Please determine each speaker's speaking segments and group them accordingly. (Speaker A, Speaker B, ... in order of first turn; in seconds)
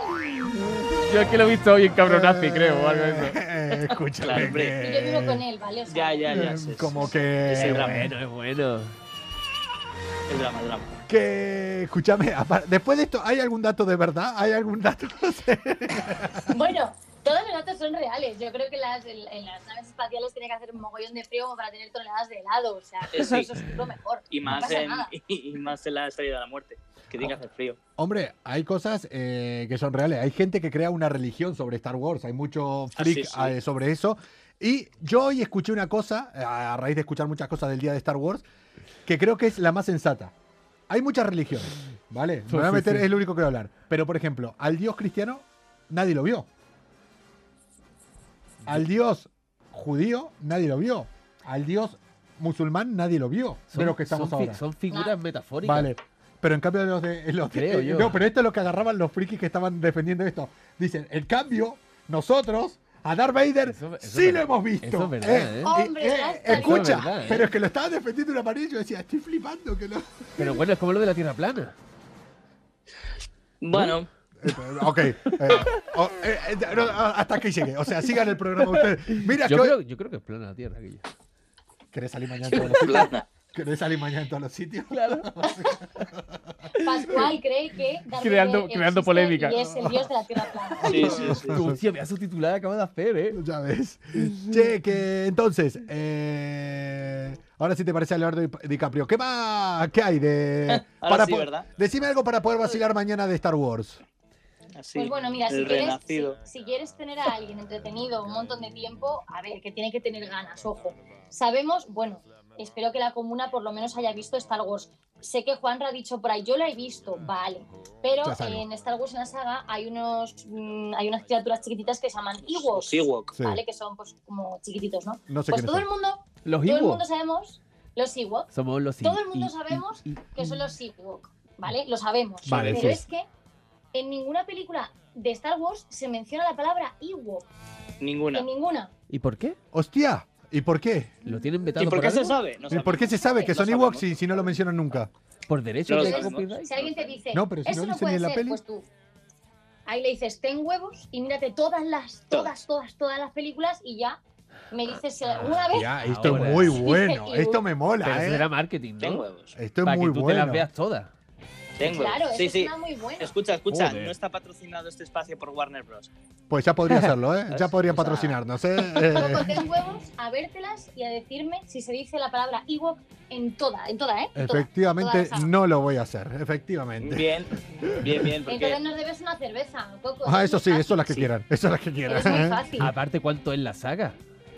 Speaker A: 1.1-3.4, 7.5-8.9, 42.5-43.1, 53.7-55.9, 57.5-58.2, 63.7-65.8, 66.5-67.5, 70.4-71.7, 74.9-75.8, 78.7-81.0, 82.5-82.9, 84.9-85.3, 88.2-89.9, 90.9-93.4, 126.5-127.0, 128.5-130.7, 139.1-139.6, 141.2-142.4, 145.5-146.9, 155.3-156.9, 158.0-159.3, 159.8-161.1, 163.7-164.1, 182.8-184.2
Speaker B: 2.0-5.4, 6.3-8.1, 11.1-16.6, 28.0-38.4, 39.0-40.3, 40.9-46.5, 48.7-54.6, 55.6-70.5, 74.4-79.8, 81.9-86.4, 89.7-90.0, 90.8-91.8, 93.3-104.0, 118.2-118.7, 123.3-123.6, 125.3-125.9, 132.4-133.0, 139.7-141.2, 142.7-145.1, 147.3-148.6, 155.7-158.5, 159.6-160.7, 166.5-169.6, 174.4-177.3, 177.8-178.2, 180.2-182.7
Speaker C: 4.2-4.8, 5.9-8.1, 10.3-10.9, 23.1-23.5, 24.3-27.8, 33.0-33.5, 73.6-74.1, 82.5-83.3, 90.9-91.6, 100.7-101.7, 104.8-106.4, 122.6-123.4, 132.6-132.8, 138.0-138.5, 141.8-144.6, 145.9-147.2, 159.0-159.6, 161.8-166.1, 167.5-168.4, 177.0-178.8
Speaker D: 4.8-7.1, 16.5-25.1, 54.9-55.2, 65.6-67.1, 85.4-85.8, 86.8-91.2, 105.0-128.5, 129.0-133.3, 133.9-137.4, 138.3-138.9, 143.2-143.6, 145.9-148.9, 149.9-154.2, 154.7-155.9, 156.7-157.7, 161.8-163.4, 169.1-175.5, 178.5-181.2, 182.1-182.9